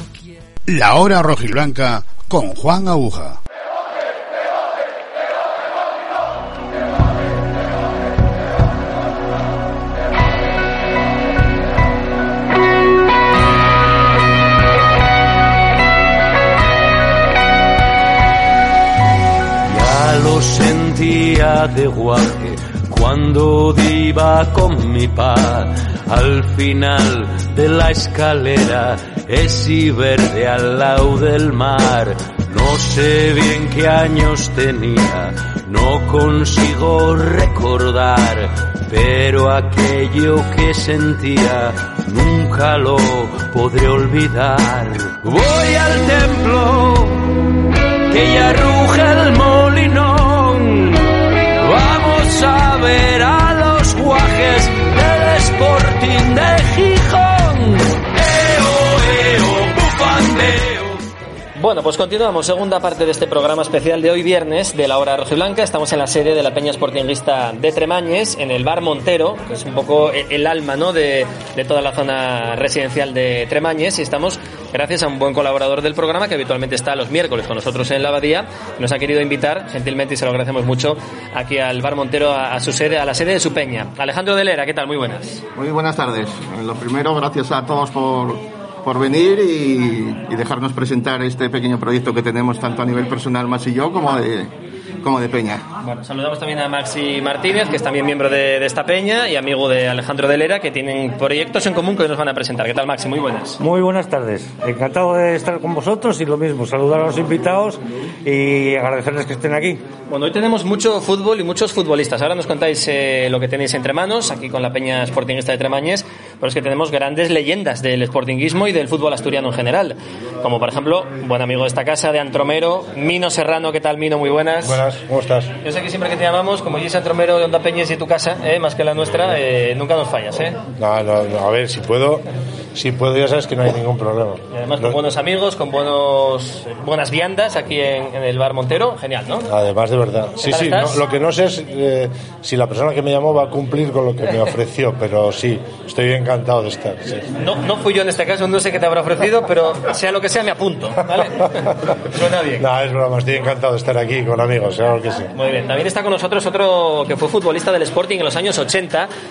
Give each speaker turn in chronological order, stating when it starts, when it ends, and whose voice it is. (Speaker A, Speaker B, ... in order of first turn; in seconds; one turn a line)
Speaker A: 0.7-3.4
Speaker B: 19.6-47.4
Speaker B: 48.1-61.0
Speaker C: 61.6-85.4
Speaker D: 85.5-95.6
Speaker C: 95.8-103.6
Speaker E: 103.6-109.8
Speaker C: 110.1-124.8
Speaker F: 124.6-125.5
Speaker C: 125.6-130.6
Speaker F: 130.8-135.0
Speaker C: 134.5-139.5
Speaker F: 139.5-147.3
Speaker C: 140.4-141.0
Speaker C: 147.3-152.7
Speaker F: 151.6-151.9
Speaker F: 152.6-155.3
Speaker C: 155.3-159.1